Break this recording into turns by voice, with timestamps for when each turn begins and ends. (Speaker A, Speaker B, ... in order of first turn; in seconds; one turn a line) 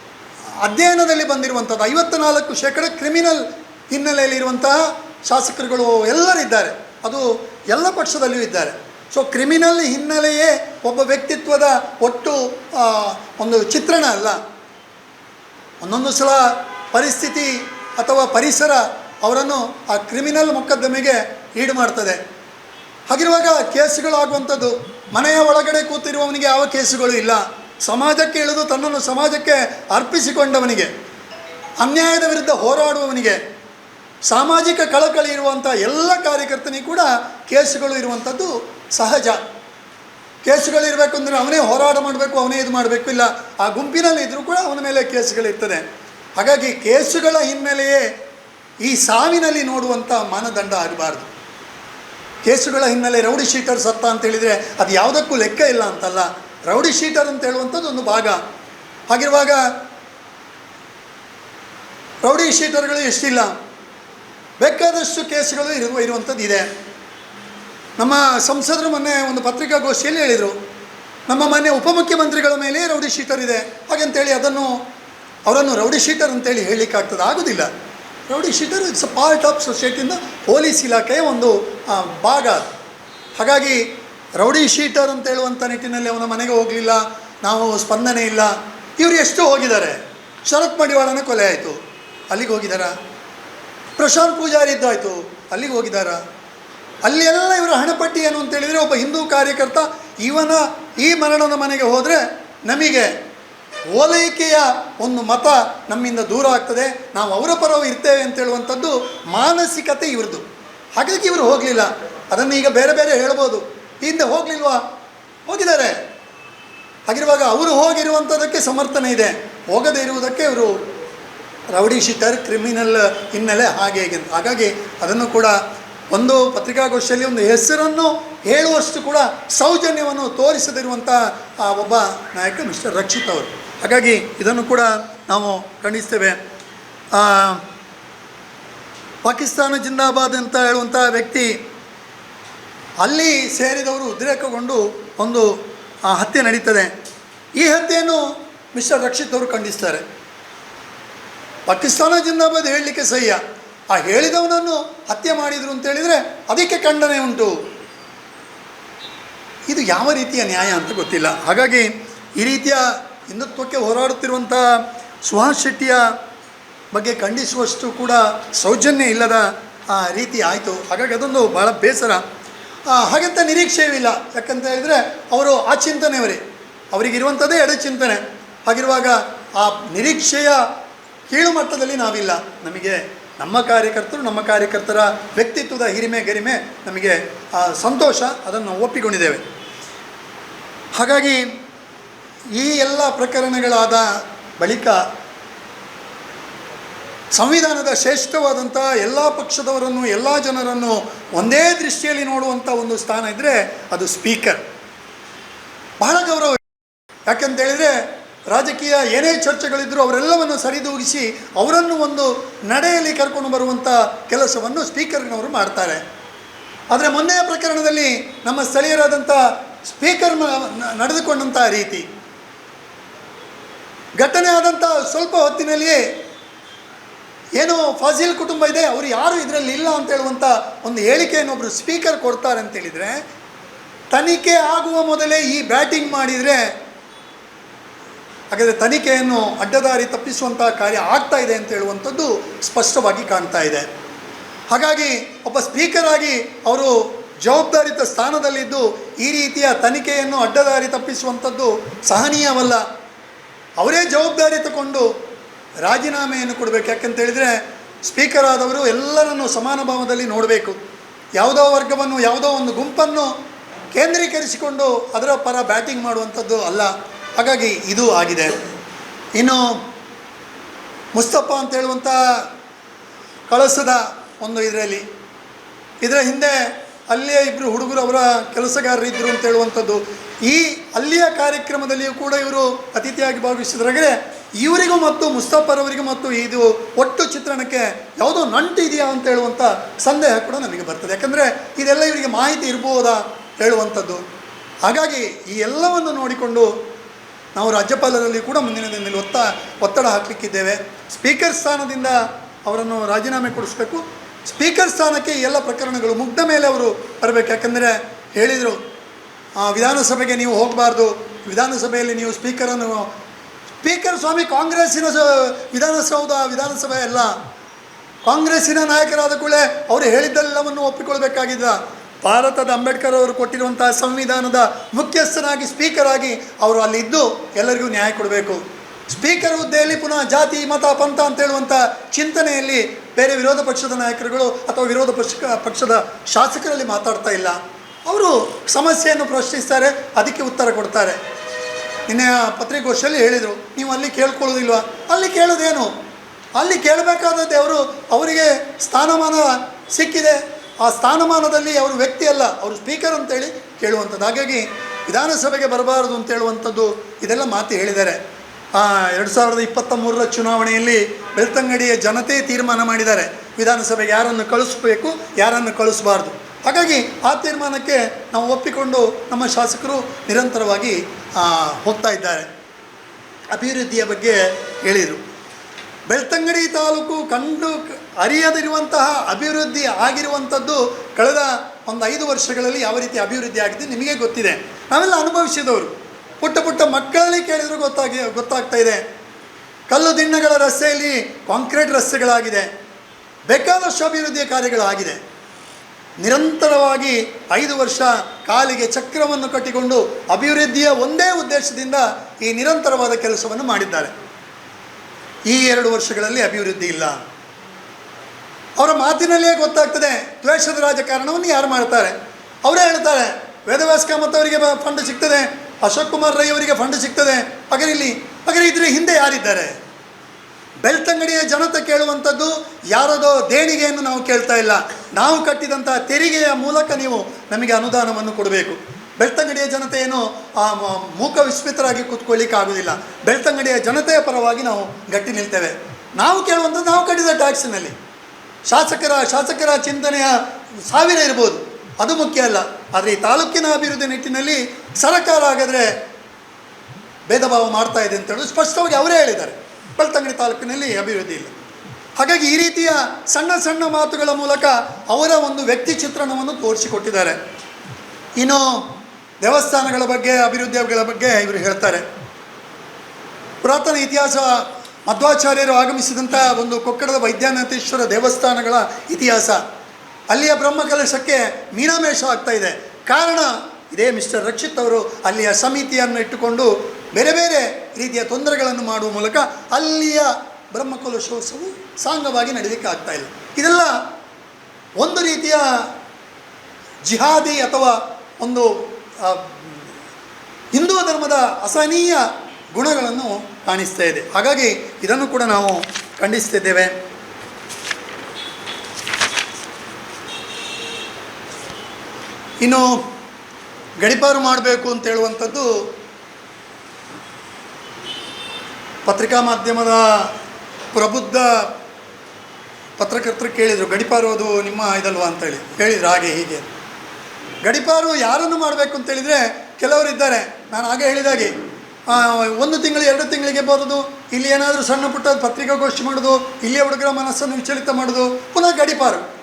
Speaker A: 0.6-14.4
Speaker A: 15.8-22.2
Speaker A: 23.1-30.9
Speaker A: 31.8-33.4
Speaker A: 34.2-39.4
Speaker A: 40.4-45.8
Speaker A: 46.4-48.0
Speaker A: 48.8-51.3
Speaker A: 52.4-58.4
Speaker A: 59.1-59.7
Speaker A: 62.2-63.5
Speaker A: 64.6-66.7
Speaker A: 68.0-70.5
Speaker A: 71.3-74.8
Speaker A: 75.5-77.7
Speaker A: 78.3-82.7
Speaker A: 83.4-91.8
Speaker A: 92.3-92.9
Speaker A: 94.0-96.2
Speaker A: 97.0-103.1
Speaker A: 103.9-110.4
Speaker A: 111.0-114.8
Speaker A: 115.5-116.0
Speaker A: 117.1-120.8
Speaker A: 121.7-125.6
Speaker A: 126.1-136.4
Speaker A: 137.1-137.6
Speaker A: 139.2-141.6
Speaker A: 143.0-146.9
Speaker A: 147.6-150.0
Speaker A: 151.7-153.4
Speaker A: 153.9-157.6
Speaker A: 159.7-166.1
Speaker A: 166.9-172.2
Speaker A: 172.9-176.4
Speaker A: 176.9-180.6
Speaker A: 181.3-189.4
Speaker A: 190.9-191.4
Speaker A: 192.5-195.0
Speaker A: 197.3-204.6
Speaker A: 206.0-206.6
Speaker A: 207.3-216.0
Speaker A: 216.9-222.1
Speaker A: 224.2-226.0
Speaker A: 227.6-233.2
Speaker A: 234.1-236.6
Speaker A: 238.5-243.8
Speaker A: 244.7-252.8
Speaker A: 253.8-255.1
Speaker A: 255.8-260.8
Speaker A: 261.4-263.3
Speaker A: 263.9-268.5
Speaker A: 269.3-269.8
Speaker A: 271.1-272.4
Speaker A: 273.5-275.0
Speaker A: 276.0-276.6
Speaker A: 277.1-294.2
Speaker A: 294.8-296.7
Speaker A: 297.5-308.8
Speaker A: 309.6-313.1
Speaker A: 313.8-317.4
Speaker A: 318.2-341.2
Speaker A: 342.1-345.9
Speaker A: 346.6-358.2
Speaker A: 358.7-372.5
Speaker A: 373.5-375.2
Speaker A: 376.1-389.0
Speaker A: 389.9-392.7
Speaker A: 393.5-395.2
Speaker A: 396.2-404.1
Speaker A: 405.5-407.2
Speaker A: 408.8-419.7
Speaker A: 420.8-437.9
Speaker A: 438.7-445.9
Speaker A: 447.3-451.5
Speaker A: 452.1-457.4
Speaker A: 458.4-462.0
Speaker A: 463.6-469.6
Speaker A: 470.3-484.0
Speaker A: 485.0-485.9
Speaker A: 487.0-489.7
Speaker A: 490.7-496.9
Speaker A: 502.6-503.0
Speaker A: 504.0-505.8
Speaker A: 509.1-510.3
Speaker A: 510.9-511.7
Speaker A: 513.0-516.7
Speaker A: 517.6-521.5
Speaker A: 522.1-529.2